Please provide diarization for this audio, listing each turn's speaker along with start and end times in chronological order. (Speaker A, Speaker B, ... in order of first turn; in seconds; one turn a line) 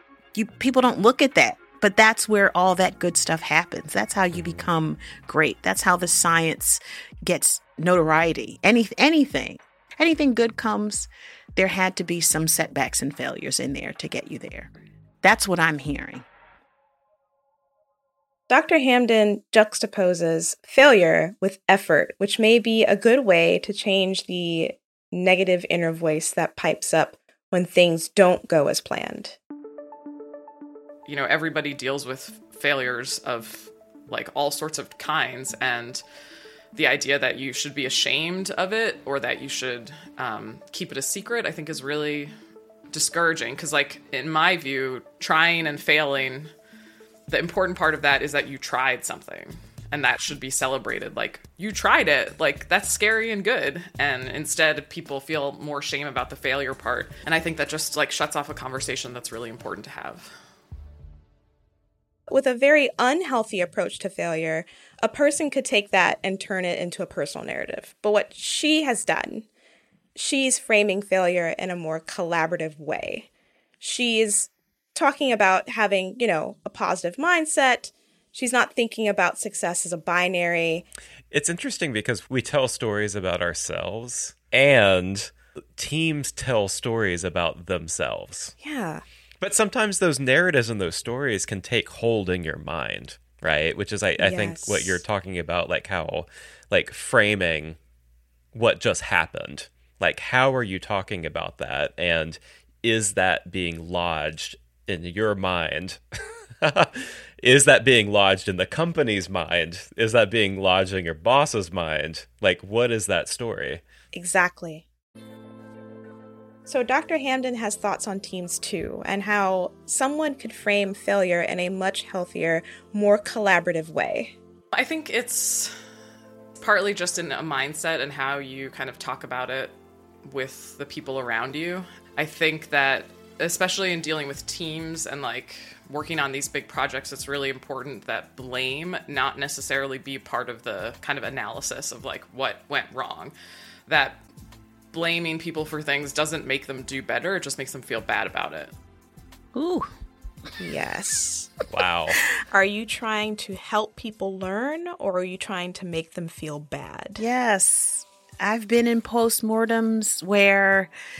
Speaker A: 0.3-16.3
Speaker B: 18.5-29.4
Speaker C: 31.1-36.0
Speaker C: 36.8-42.3
Speaker C: 42.9-46.5
Speaker C: 47.3-60.3
Speaker B: 62.3-69.5
Speaker B: 70.2-73.3
Speaker B: 73.8-80.9
Speaker D: 81.3-88.5
Speaker B: 88.6-89.0
Speaker D: 89.4-97.8
Speaker B: 94.2-95.0
Speaker D: 98.5-106.0
Speaker D: 106.6-113.8
Speaker B: 114.1-114.9
Speaker B: 116.7-124.4
Speaker C: 124.7-125.7
Speaker C: 126.6-129.7
Speaker C: 130.2-143.3
Speaker C: 143.9-144.2
Speaker C: 144.9-148.7
Speaker A: 149.5-149.9
Speaker B: 150.6-151.5
Speaker D: 151.7-152.2
Speaker B: 152.5-157.2
Speaker A: 157.2-160.9